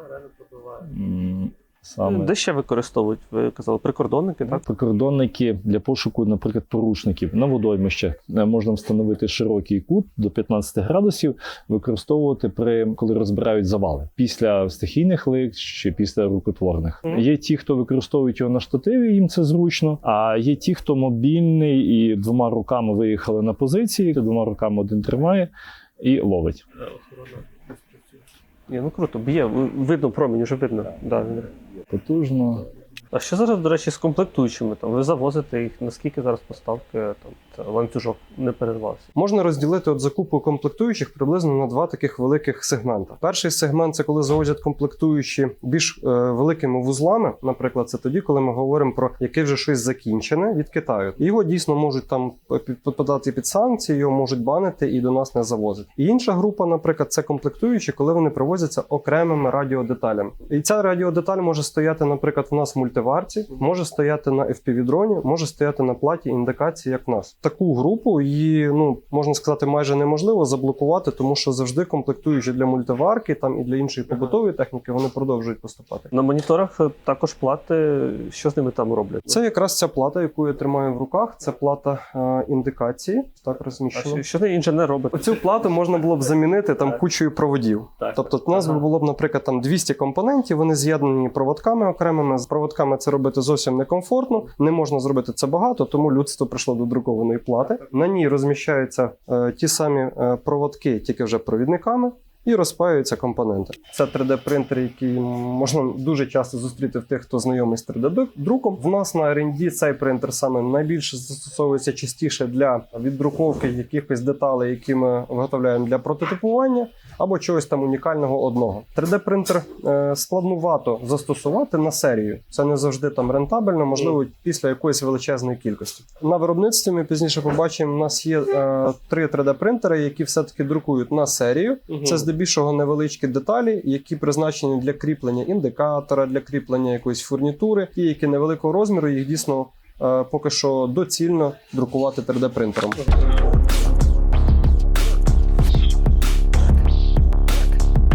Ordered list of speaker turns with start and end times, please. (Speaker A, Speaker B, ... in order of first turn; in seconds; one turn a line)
Speaker A: 0.8-2.3
Speaker B: 2.0-4.6
Speaker A: 4.7-26.6
Speaker B: 27.1-27.4
Speaker B: 28.7-31.5
Speaker A: 31.9-32.7
Speaker B: 33.1-39.1
Speaker C: 39.1-76.1
Speaker B: 76.1-79.4
Speaker C: 79.3-84.2
Speaker B: 84.0-85.2
Speaker C: 85.1-143.0
Speaker B: 131.9-132.2